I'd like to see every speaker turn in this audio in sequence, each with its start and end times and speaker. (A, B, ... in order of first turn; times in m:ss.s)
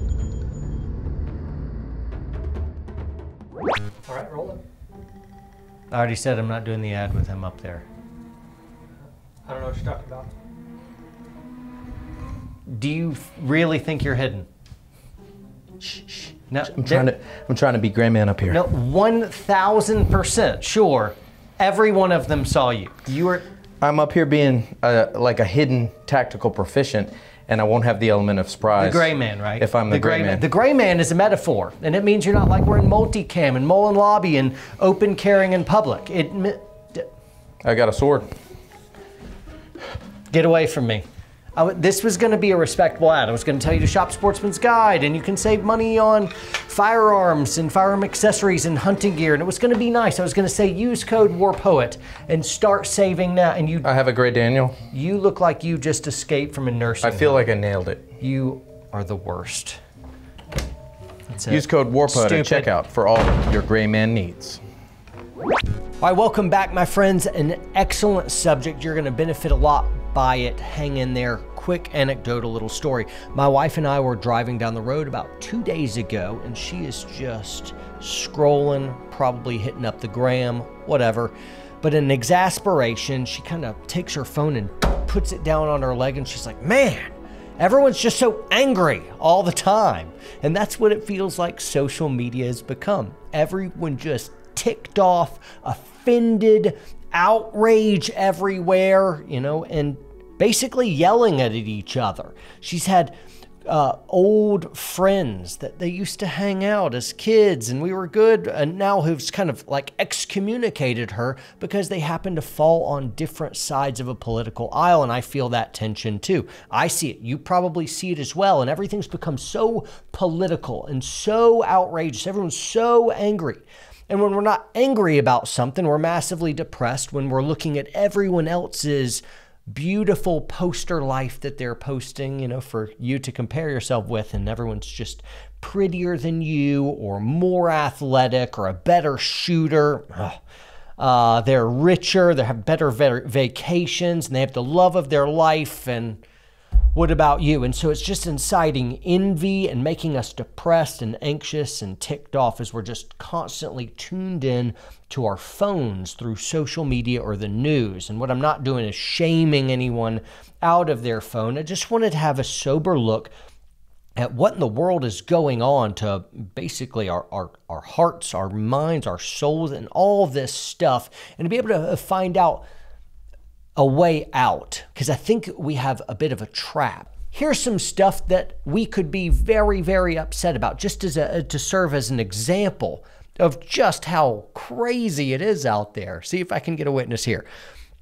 0:04.1-0:04.6 A
0:05.9-0:07.8 A
0:09.4-0:10.3 A
0:12.7-0:14.5 A
0:16.5-0:17.1 A
0:16.7-0:18.6 B
0:18.5-0:23.4 A
0:23.8-0:30.4 B
0:28.8-0:37.1 A
0:37.6-0:38.3 B
0:40.3-0:41.0 A
0:41.6-0:53.9 A
0:53.8-0:54.8 B
0:54.9-0:57.4 A
0:57.0-0:58.1 B
0:58.2-0:59.8 A
1:01.3-1:02.7 A
1:01.5-1:04.6 B
1:06.0-1:43.1 A
1:43.6-2:20.4 A
2:21.0-2:26.2 A
2:26.9-2:43.3 A
2:44.2-2:52.6 A
2:53.8-3:07.4 A